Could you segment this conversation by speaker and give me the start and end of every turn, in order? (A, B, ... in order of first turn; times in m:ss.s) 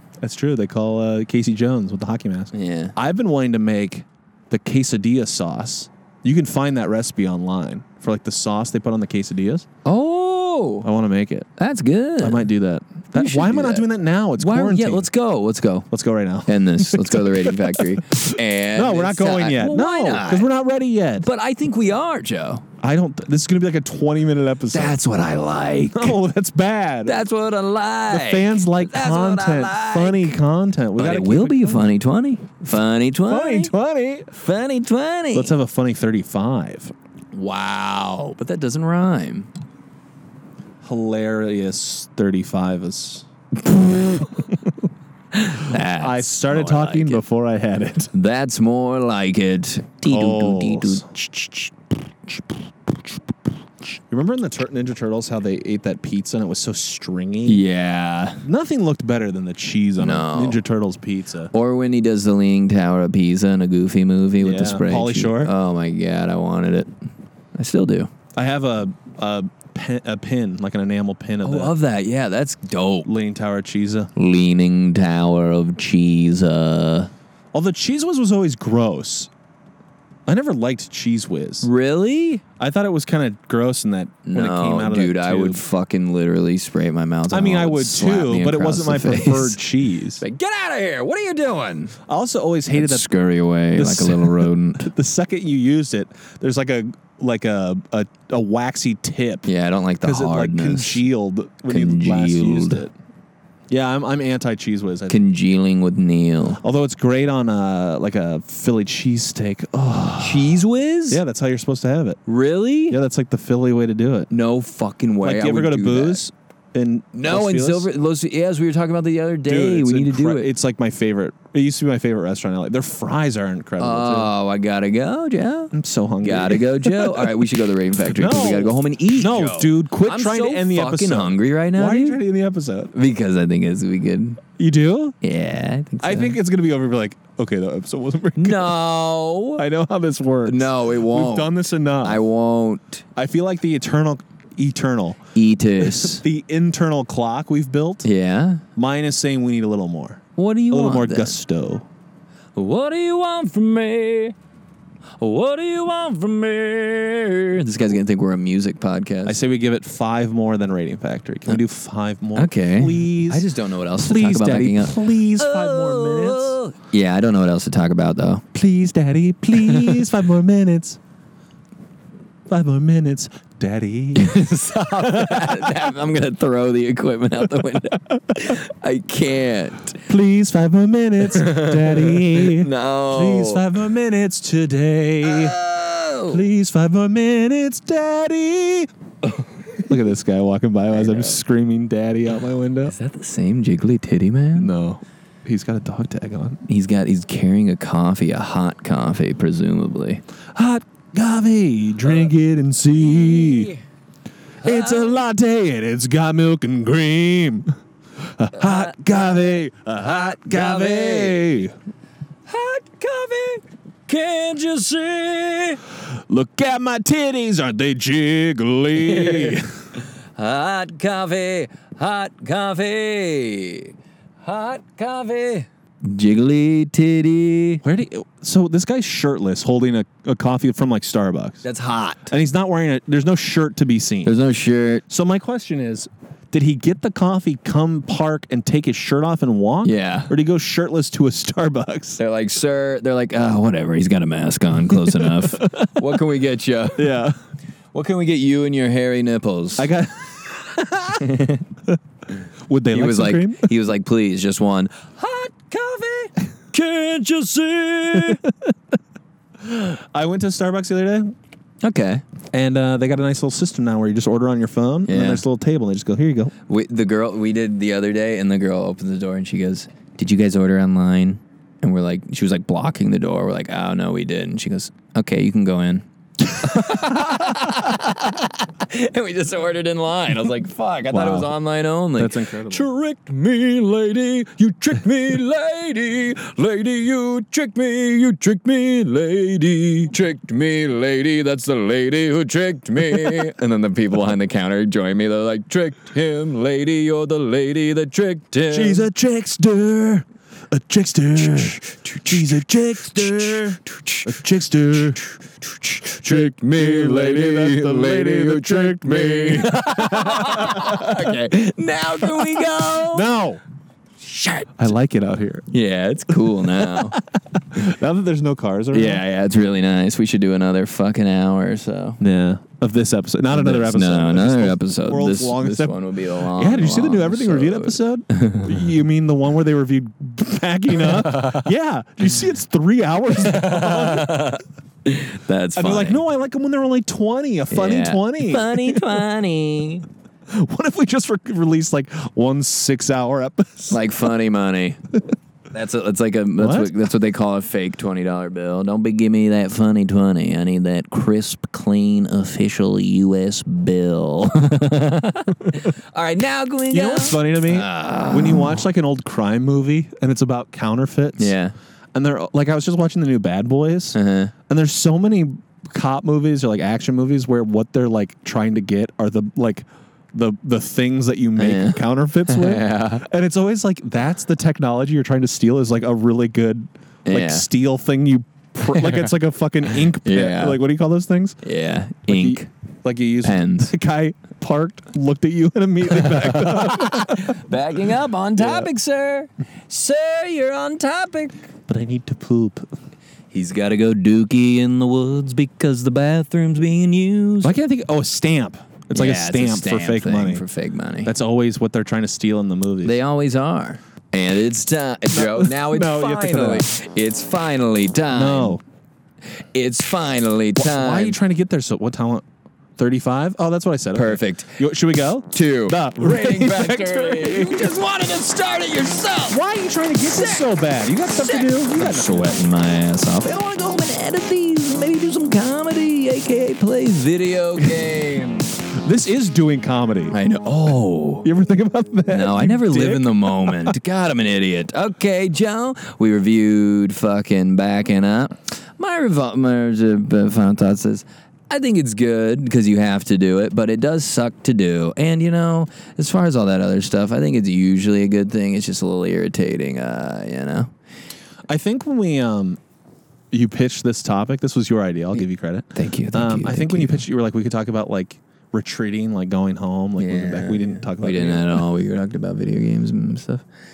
0:00.2-0:09.7 A
0:02.5-0:02.9 B
0:09.8-0:10.9 B
0:10.8-0:11.5 A
0:11.6-0:12.5 B
0:12.2-0:15.1 A
0:13.1-0:13.9 B
0:14.4-0:15.9 B
0:15.9-0:21.3 A
0:16.4-0:20.5 B
0:21.2-0:22.6 B
0:22.8-0:25.0 A
0:24.7-0:26.2 B
0:25.9-0:27.2 A
0:27.0-0:30.3 B
0:28.1-0:31.9 A
0:31.0-0:33.7 B
0:33.2-0:34.3 A
0:34.3-0:35.5 B
0:35.3-0:36.9 A
0:37.3-0:39.5 B
0:40.8-0:44.7 A
0:43.7-0:44.2 B
0:45.3-0:47.2 B
0:45.7-0:48.1 A
0:48.1-0:51.0 B
0:50.0-0:51.7 A
0:54.1-0:57.6 A
0:57.4-0:58.4 B
0:58.4-1:01.5 A
1:00.0-1:00.6 B
1:01.5-1:06.9 B
1:04.4-1:05.5 A
1:07.5-1:08.1 B
1:08.3-1:11.8 A
1:11.4-1:13.1 B
1:13.0-1:14.1 A
1:14.2-1:17.1 B
1:17.5-1:19.3 A
1:20.2-1:21.7 A
1:21.6-1:22.4 B
1:22.6-1:25.6 A
1:24.2-1:29.6 B
1:27.3-1:30.2 A
1:30.2-1:32.0 B
1:32.1-1:33.1 A
1:32.7-1:34.9 B
1:33.7-1:39.5 A
1:39.4-1:41.0 B
1:40.0-1:42.9 A
1:41.7-1:42.8 B
1:43.7-1:45.2 A
1:45.1-1:46.6 B
1:46.6-1:52.2 A
1:50.2-1:51.2 B
1:52.2-1:53.0 B
1:52.9-1:54.3 A
1:54.3-1:56.2 B
1:55.2-1:57.9 A
1:57.1-2:00.5 B
1:59.4-2:04.3 A
2:03.8-2:12.2 B
2:05.7-2:07.4 A
2:08.0-2:12.9 A
2:12.9-2:14.4 B
2:14.6-2:15.2 A
2:15.2-2:16.4 B
2:16.0-2:18.8 A
2:18.4-2:19.6 B
2:19.6-2:22.2 A
2:20.4-2:23.0 B
2:23.2-2:25.2 A
2:25.3-2:26.2 B
2:25.8-2:28.1 A
2:28.0-2:28.6 B
2:28.8-2:31.8 A
2:30.4-2:31.4 B
2:32.5-2:34.3 B
2:35.2-2:39.4 B
2:39.2-2:46.6 A
2:42.4-2:48.4 B
2:48.5-2:51.0 A
2:49.6-2:50.0 B
2:52.5-2:54.4 A
2:54.1-3:00.0 B
2:55.0-2:55.8 A
3:00.1-3:05.6 A
3:01.2-3:03.8 B
3:05.2-3:06.4 B
3:06.3-3:08.9 A
3:09.8-3:12.9 A
3:10.9-3:11.4 B
3:12.8-3:14.7 B
3:14.6-3:16.6 A
3:16.7-3:20.2 B
3:20.5-3:23.7 A
3:23.0-3:23.8 B
3:24.6-3:31.7 A
3:24.6-3:25.2 B
3:28.6-3:29.0 B
3:30.4-3:31.6 B
3:32.5-3:35.8 B
3:36.3-3:39.7 A
3:39.0-3:39.6 B
3:40.4-3:47.8 B
3:47.8-3:51.6 A
3:51.6-3:52.3 B
3:52.3-3:54.3 A
3:54.2-3:55.0 B
3:55.1-4:02.2 A
3:59.8-4:00.3 B
4:02.2-4:07.2 B
4:04.9-4:06.2 A
4:07.0-4:07.4 A
4:07.9-4:09.9 B
4:09.8-4:11.3 A
4:11.2-4:11.6 B
4:12.7-4:13.7 A
4:12.9-4:18.4 B
4:18.2-4:18.5 A
4:19.6-4:21.3 A
4:21.8-4:22.2 B
4:22.5-4:26.5 A
4:25.1-4:25.4 B
4:26.7-4:36.0 B
4:36.6-4:59.0 B
4:41.1-4:41.5 A
4:42.2-4:42.9 A
4:58.7-5:05.3 A
5:01.3-5:04.3 B
5:05.8-5:13.3 B
5:05.9-5:11.4 A
5:12.2-5:13.6 A
5:14.2-5:14.9 B
5:14.8-5:15.6 A
5:15.7-5:17.2 B
5:16.6-5:19.2 A
5:18.9-5:22.2 B
5:22.2-5:34.6 A
5:23.5-5:28.7 B
5:33.4-5:36.2 B
5:35.8-5:39.2 A
5:37.7-5:40.0 B
5:40.5-5:44.0 A
5:43.9-5:45.0 B
5:45.7-5:58.8 B
5:46.6-5:46.9 A
5:56.9-6:01.5 A
6:01.4-6:01.7 B
6:02.1-6:04.2 A
6:04.1-6:04.5 B
6:04.7-6:21.6 A
6:11.6-6:13.2 B
6:17.2-6:17.7 B
6:18.8-6:19.3 B
6:20.1-6:20.8 B
6:21.6-6:22.7 B
6:22.3-6:27.6 A
6:23.4-6:23.9 B
6:26.1-6:31.6 B
6:28.6-6:28.9 A
6:31.9-6:32.9 A
6:33.5-6:37.8 B
6:37.6-6:40.6 A
6:39.1-6:41.3 B
6:41.2-6:43.2 A
6:43.0-6:48.8 B
6:45.3-6:46.9 A
6:48.3-6:48.8 A
6:49.6-6:51.4 B
6:50.8-6:52.4 A
6:53.0-6:57.9 A
6:54.1-6:54.8 B
6:55.5-6:59.6 B
6:59.5-7:02.6 A
7:00.3-7:08.8 B
7:09.0-7:10.3 A
7:10.3-7:11.5 B
7:11.4-7:14.0 A
7:12.3-7:30.9 B
7:31.7-7:32.8 A
7:33.5-7:41.8 A
7:35.9-7:37.2 B
7:40.2-7:43.6 B